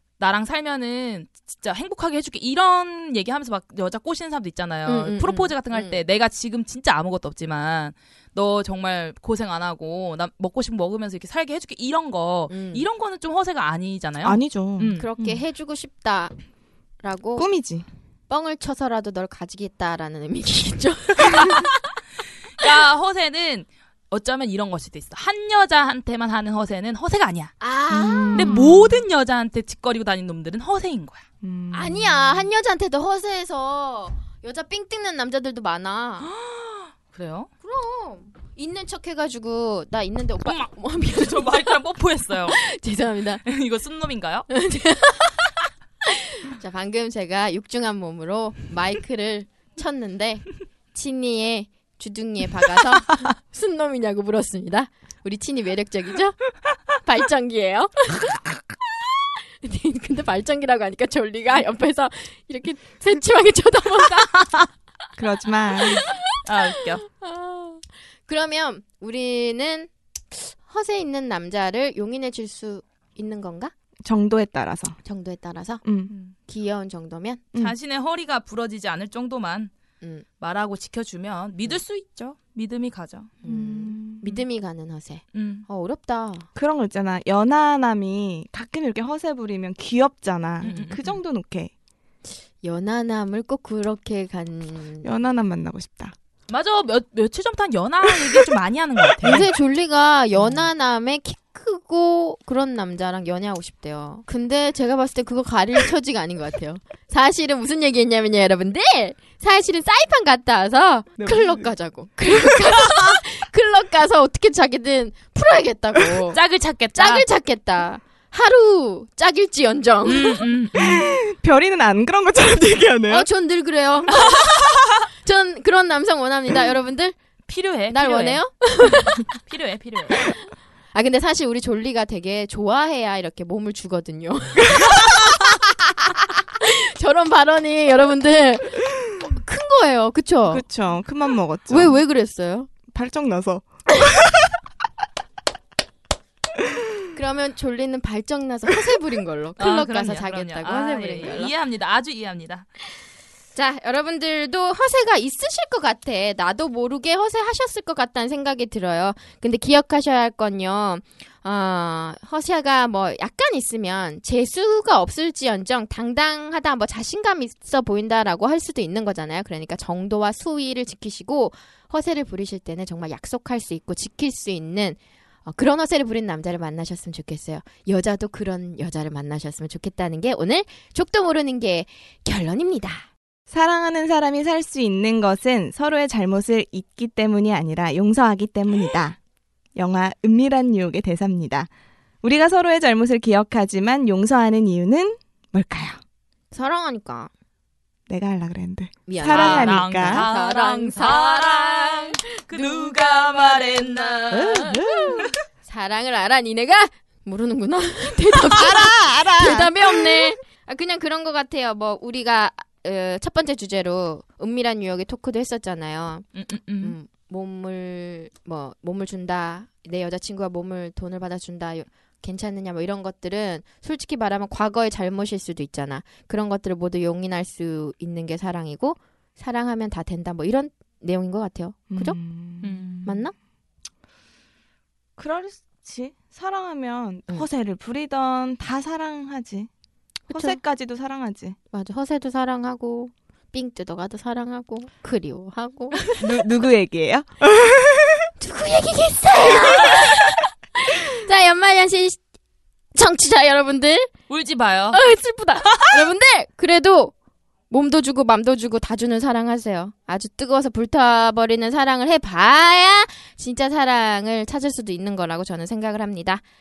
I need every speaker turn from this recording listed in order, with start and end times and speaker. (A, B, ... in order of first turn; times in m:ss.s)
0:00.2-0:15.4 A
0:04.9-0:06.0 B
0:12.5-0:12.8 B
0:14.2-0:15.0 C
0:15.0-0:16.3 B
0:17.0-0:17.5 B
0:17.4-0:17.9 C
0:18.3-0:21.8 B
0:22.6-0:27.5 A
0:27.6-0:28.7 B
0:27.9-0:29.1 C
0:28.3-0:31.2 A
0:31.4-0:32.5 C
0:31.7-0:36.3 B
0:36.2-0:37.5 A
0:37.6-0:43.4 B
0:40.4-0:42.6 A
0:43.5-0:44.5 A
0:44.5-0:45.5 B
0:46.0-0:56.4 B
0:57.0-0:58.6 B
0:59.2-1:04.5 B
1:05.2-1:06.0 C
1:05.8-1:13.7 B
1:06.5-1:07.0 A
1:14.0-1:15.0 C
1:15.0-1:15.8 B
1:15.8-1:16.1 C
1:16.1-1:16.4 A
1:16.5-1:17.4 B
1:17.6-1:19.7 A
1:20.0-1:20.3 B
1:20.4-1:23.3 A
1:23.4-1:26.5 B
1:23.5-1:24.4 C
1:25.3-1:25.7 A
1:26.6-1:31.7 C
1:30.6-1:31.2 A
1:32.6-1:35.1 B
1:35.0-1:36.1 C
1:36.5-1:39.5 A
1:39.2-1:56.4 B
1:40.4-1:40.6 A
1:51.2-1:51.7 C
1:56.3-1:57.3 A
1:56.9-2:00.5 B
2:00.1-2:01.1 A
2:00.8-2:03.3 C
2:03.1-2:07.2 B
2:07.5-2:08.4 A
2:07.9-2:09.2 B
2:09.4-2:10.2 A
2:10.9-2:20.6 B
2:20.5-2:21.9 C
2:21.7-2:22.7 B
2:22.9-2:23.7 C
2:27.1-2:31.5 B
2:29.6-2:32.7 A
2:33.6-3:03.1 B
3:03.5-3:09.2 C
3:09.8-3:11.7 C
3:12.2-3:16.0 C
3:16.5-3:17.3 B
3:18.1-3:20.3 C
3:19.1-3:22.9 B
3:19.2-3:24.8 A
3:24.3-3:25.3 C
3:25.6-3:36.3 B
3:28.5-3:30.3 C
3:36.4-3:37.0 A
3:36.8-3:52.2 B
3:51.9-3:52.9 C
3:52.6-3:53.2 A
3:53.0-3:53.3 B
3:55.2-3:59.7 C
4:00.3-4:01.6 C
4:00.3-4:00.6 B
4:01.7-4:06.0 B
4:06.2-4:08.3 C
4:08.4-4:12.2 B
4:12.9-4:14.1 B
4:14.3-4:15.0 A
4:14.9-4:17.1 B
4:17.7-4:26.4 B